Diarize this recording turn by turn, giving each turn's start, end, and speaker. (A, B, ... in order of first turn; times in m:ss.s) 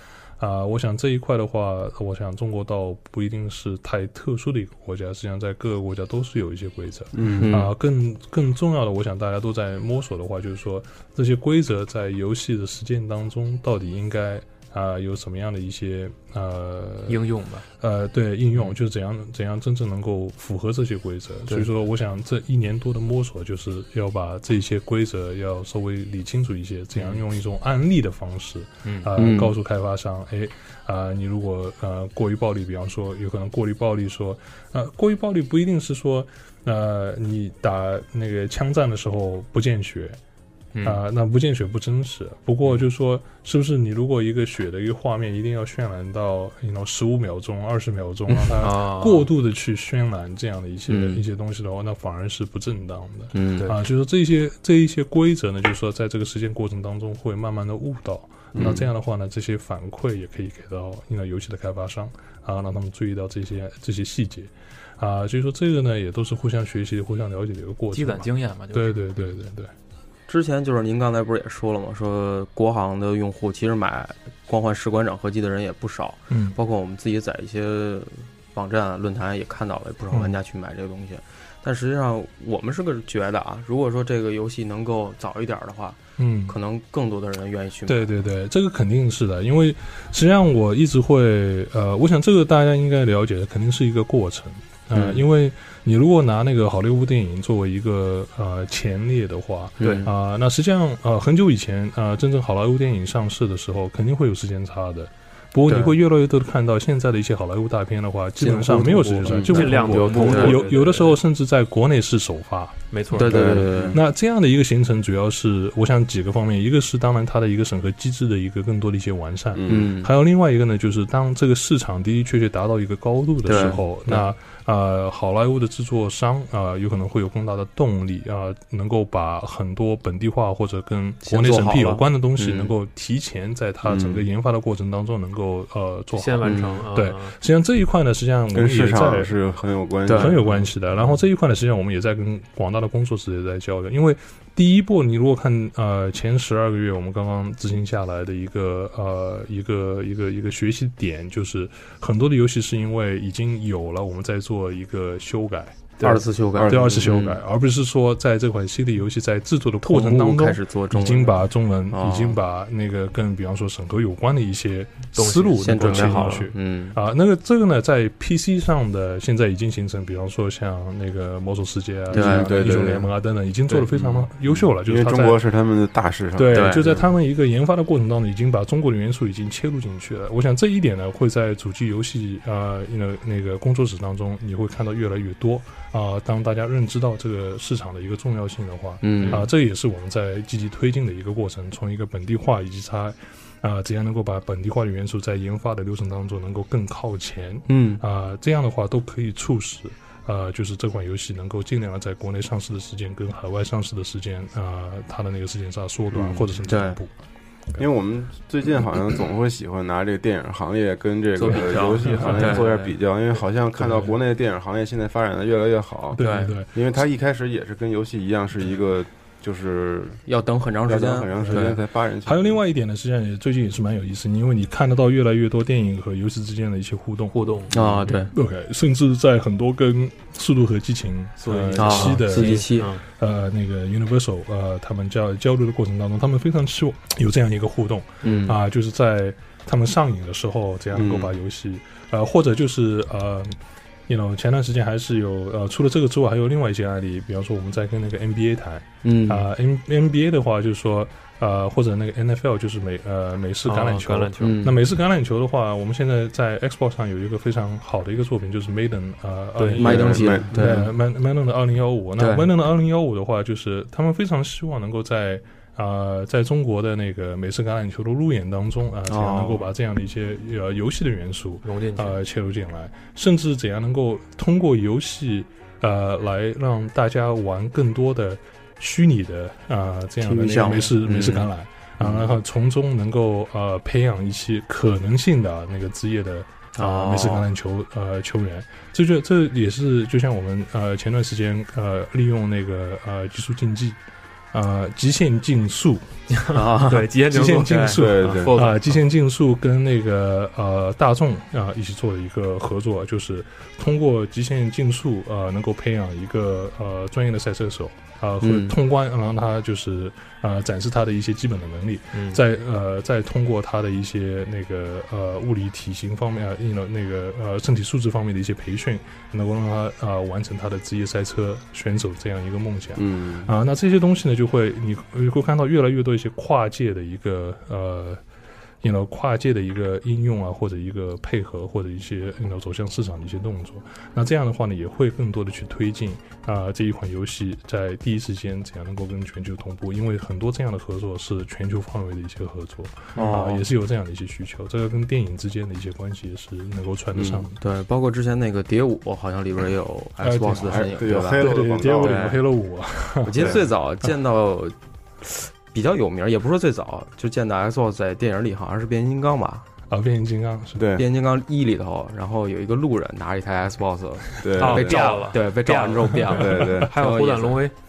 0:00.4-0:17.2 A
0:07.1-0:07.6 B
0:07.4-0:07.7 C
0:17.1-0:17.6 D
0:17.8-0:40.2 A
0:26.9-0:27.2 D
0:29.2-0:29.5 C
0:40.7-0:41.0 D
0:40.8-1:09.7 A
0:48.6-0:49.3 D
0:50.9-0:51.2 C
0:53.3-0:53.7 C
0:58.5-0:58.8 B
1:07.9-1:09.0 D
1:10.3-1:28.1 C
1:16.3-1:16.6 A
1:20.1-1:20.4 A
1:26.2-1:26.5 A
1:27.9-1:53.2 A
1:34.9-1:35.2 C
1:39.8-1:40.1 C
1:39.8-1:40.1 D
1:45.7-1:46.0 C
1:48.4-1:50.6 C
1:49.2-1:51.2 D
1:49.3-1:49.5 B
1:52.9-1:53.5 D
1:53.1-1:54.0 C
1:53.3-1:54.0 B
1:53.9-2:19.3 A
1:59.6-1:59.9 B
1:59.7-2:00.1 C
2:03.4-2:04.3 C
2:11.2-2:12.7 C
2:13.8-2:14.2 B
2:16.2-2:17.3 D
2:16.4-2:16.8 C
2:18.5-2:20.4 B
2:20.0-2:20.4 C
2:20.1-2:36.0 A
2:36.0-2:37.4 C
2:36.5-2:37.1 B
2:36.7-2:55.4 A
2:39.8-2:42.4 C
2:45.1-2:46.4 D
2:45.6-2:47.0 C
2:52.1-2:53.0 C
2:52.1-2:53.1 B
2:54.4-2:57.0 B
2:56.4-3:27.1 A
2:56.5-2:57.0 C
3:09.0-3:09.5 C
3:17.7-3:18.0 C
3:26.1-3:26.5 B
3:26.7-3:27.0 C
3:27.8-3:36.2 B
3:31.4-3:32.9 C
3:32.0-3:32.6 A
3:33.8-3:34.1 A
3:36.2-3:36.7 A
3:36.2-3:36.6 C
3:36.7-3:40.2 B
3:40.3-3:41.7 C
3:40.8-3:42.6 B
3:41.5-4:03.6 A
3:47.3-3:48.1 D
3:47.7-3:48.3 C
3:51.4-3:53.0 D
3:51.8-3:53.0 C
3:58.2-3:58.6 C
4:00.9-4:01.3 B
4:04.1-4:54.0 A
4:09.0-4:09.5 C
4:13.6-4:14.6 D
4:14.4-4:14.8 C
4:19.6-4:20.1 D
4:19.8-4:20.9 C
4:19.8-4:20.5 B
4:22.2-4:22.5 C
4:29.1-4:29.7 C
4:31.6-4:32.2 D
4:40.2-4:41.5 C
4:42.0-4:42.3 C
4:46.8-4:47.5 C
4:54.5-4:56.1 A
4:56.3-4:59.0 D
4:56.5-4:57.1 C
4:57.3-5:28.2 A
4:58.0-4:58.5 B
5:08.4-5:08.8 C
5:12.1-5:12.4 D
5:23.0-5:23.5 B
5:28.8-5:47.6 A
5:43.2-5:43.6 C
5:47.2-5:47.4 B
5:47.6-5:52.4 C
5:50.2-5:53.6 A
5:50.7-5:52.3 B
5:53.2-5:59.6 C
5:59.9-6:00.9 A
6:00.8-6:01.0 B
6:00.9-6:07.6 C
6:04.4-6:05.2 B
6:04.6-6:07.7 D
6:06.3-6:06.9 B